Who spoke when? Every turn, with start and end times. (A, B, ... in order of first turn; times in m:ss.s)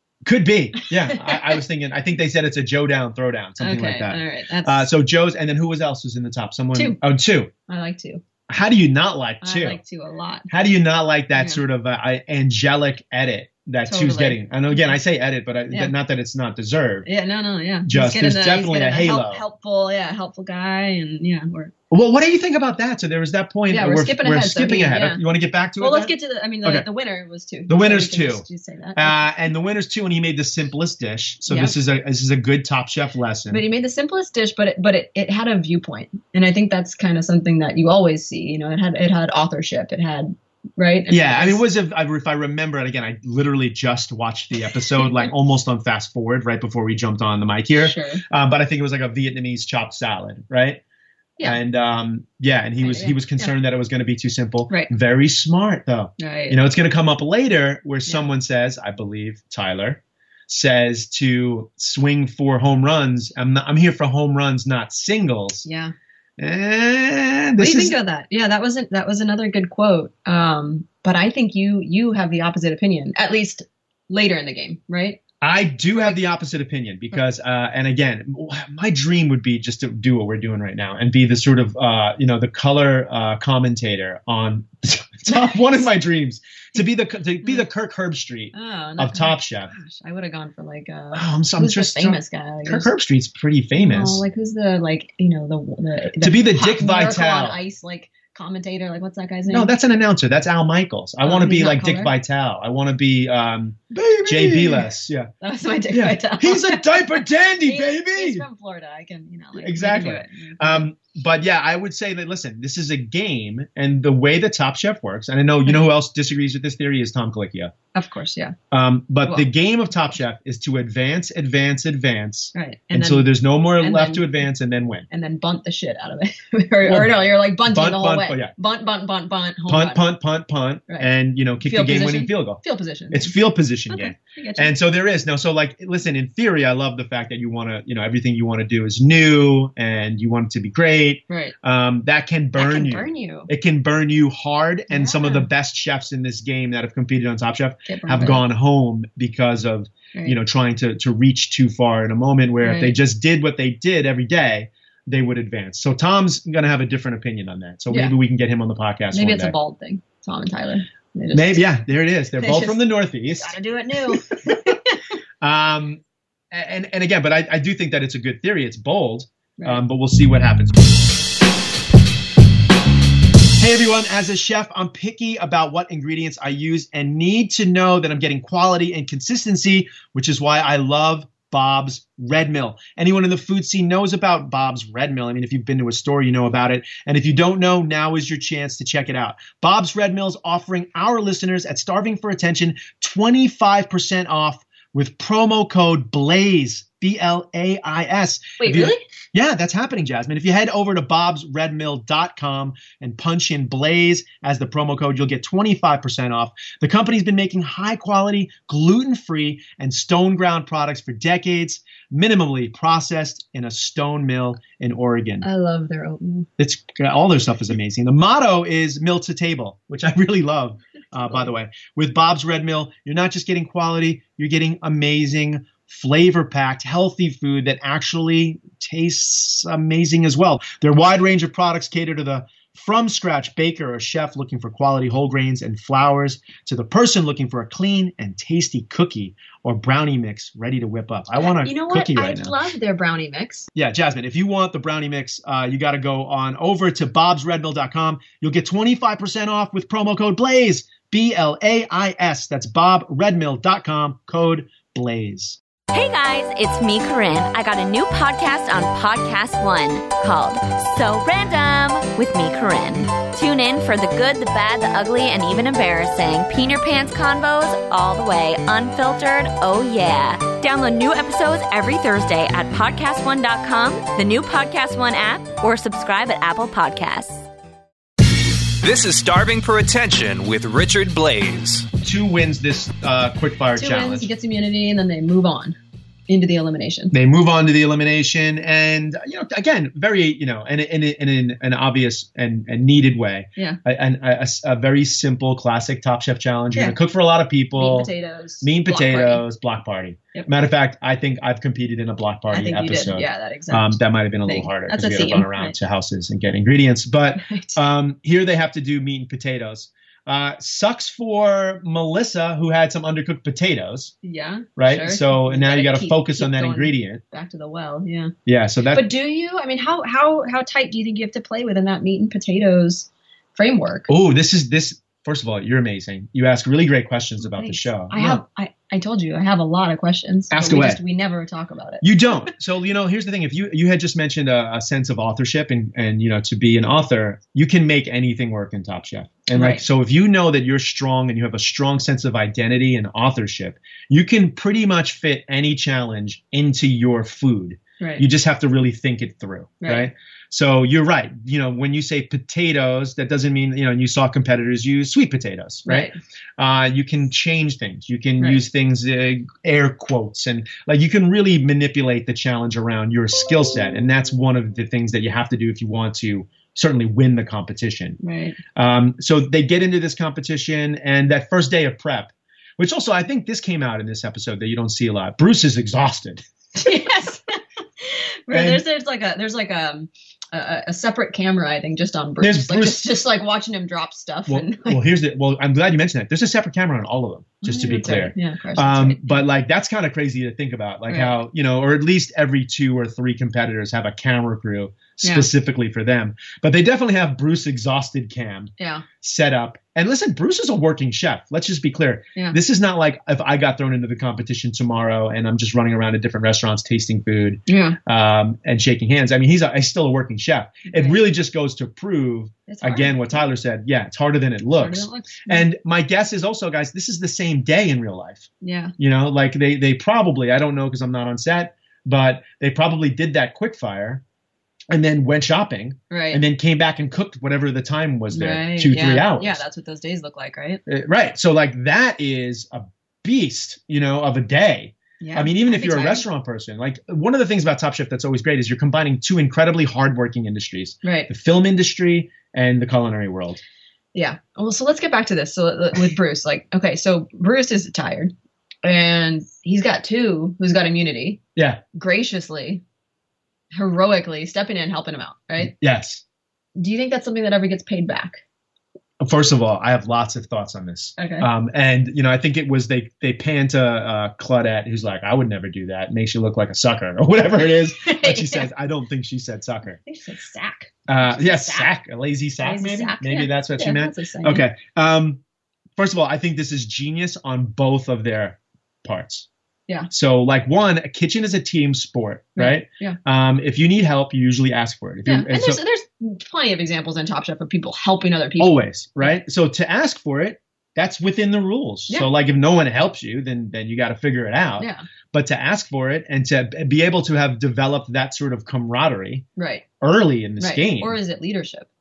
0:00.2-0:07.5 A
0:00.8-0:01.6 B
0:03.6-0:04.9 B
0:06.7-0:07.0 B
0:07.7-0:08.2 B
0:08.5-0:09.8 A
0:09.4-0:10.5 B
0:10.5-0:17.1 A
0:11.4-0:11.6 B
0:13.9-0:15.0 B
0:17.0-0:21.7 B
0:17.9-0:19.4 A
0:21.9-0:26.9 A
0:23.7-0:25.2 B
0:25.8-0:29.3 B
0:27.7-0:33.6 A
0:31.5-0:31.8 B
0:33.5-0:41.6 B
0:41.1-0:50.8 A
0:47.8-0:48.2 B
0:51.4-1:05.7 A
0:52.8-0:53.5 B
0:56.2-0:56.6 B
1:05.6-1:05.9 B
1:06.4-1:08.0 A
1:07.6-1:15.2 B
1:15.4-1:29.7 A
1:25.3-1:25.6 B
1:28.5-1:32.9 B
1:31.1-1:34.2 A
1:33.8-1:39.7 B
1:36.2-1:37.6 A
1:39.5-1:45.3 A
1:41.2-1:42.1 B
1:43.9-1:44.9 B
1:45.4-1:50.9 B
1:45.9-1:48.5 A
1:49.6-1:57.7 A
1:57.9-1:58.6 B
1:58.7-2:05.1 A
2:02.5-2:04.3 B
2:05.1-2:10.1 B
2:06.8-2:08.5 A
2:09.7-2:39.6 A
2:10.9-2:13.4 B
2:13.9-2:14.7 B
2:21.3-2:21.5 B
2:22.6-2:23.5 B
2:24.9-2:25.5 B
2:27.9-2:28.4 B
2:32.6-2:33.0 B
2:37.9-2:38.2 B
2:39.1-2:41.6 B
2:41.3-2:43.6 A
2:42.4-2:45.0 B
2:45.4-2:50.8 A
2:49.6-2:49.8 B
2:53.6-3:35.5 A
3:18.6-3:19.0 B
3:35.4-3:36.5 B
3:36.6-4:02.6 A
4:01.4-4:03.7 B
4:03.7-4:15.6 A
4:15.9-4:37.5 C
4:38.8-4:41.9 D
4:42.0-4:44.3 A
4:43.8-4:45.8 B
4:46.3-4:47.1 B
4:47.1-5:14.1 A
4:57.7-4:59.4 B
5:02.5-5:05.8 B
5:07.4-5:07.8 B
5:14.2-5:18.3 B
5:14.8-5:17.2 A
5:18.5-5:19.1 A
5:18.9-5:24.1 B
5:24.1-5:28.4 A
5:27.4-5:32.5 B
5:30.5-5:31.0 A
5:32.0-6:08.2 A
5:39.5-5:39.8 B
5:48.0-5:48.2 B
5:49.8-5:50.1 B
5:55.8-5:56.2 B
6:08.2-6:08.6 B
6:08.8-6:16.4 A
6:16.8-6:25.0 B
6:18.5-6:18.8 A
6:22.4-6:23.2 A
6:24.5-7:04.2 A
6:27.6-6:29.5 B
6:31.1-6:31.4 B
6:38.8-6:39.1 B
6:47.7-6:48.0 B
6:50.9-6:51.2 B
6:52.7-6:53.5 B
6:54.8-6:55.6 B
6:58.6-6:58.9 B
7:04.9-7:09.6 A
7:06.1-7:06.4 B
7:08.3-7:10.8 B
7:10.9-7:23.6 A
7:15.2-7:16.2 B
7:21.0-7:21.3 B
7:24.2-7:28.3 B
7:28.8-7:31.4 B
7:31.6-7:31.8 A
7:31.9-7:32.8 B
7:33.7-7:35.7 B
7:35.6-7:36.2 A
7:36.8-7:38.4 B
7:39.2-7:50.0 A
7:41.2-7:41.5 B
7:48.0-7:48.7 B
7:50.0-7:51.9 B
7:51.1-7:55.4 A
7:52.6-7:54.6 B
7:56.0-7:59.5 A
8:00.1-8:05.8 A
8:02.6-8:03.2 B
8:05.2-8:09.3 B
8:08.6-8:19.4 A
8:14.8-8:15.0 B
8:19.6-8:19.8 B
8:20.0-8:21.2 A
8:20.6-8:21.9 B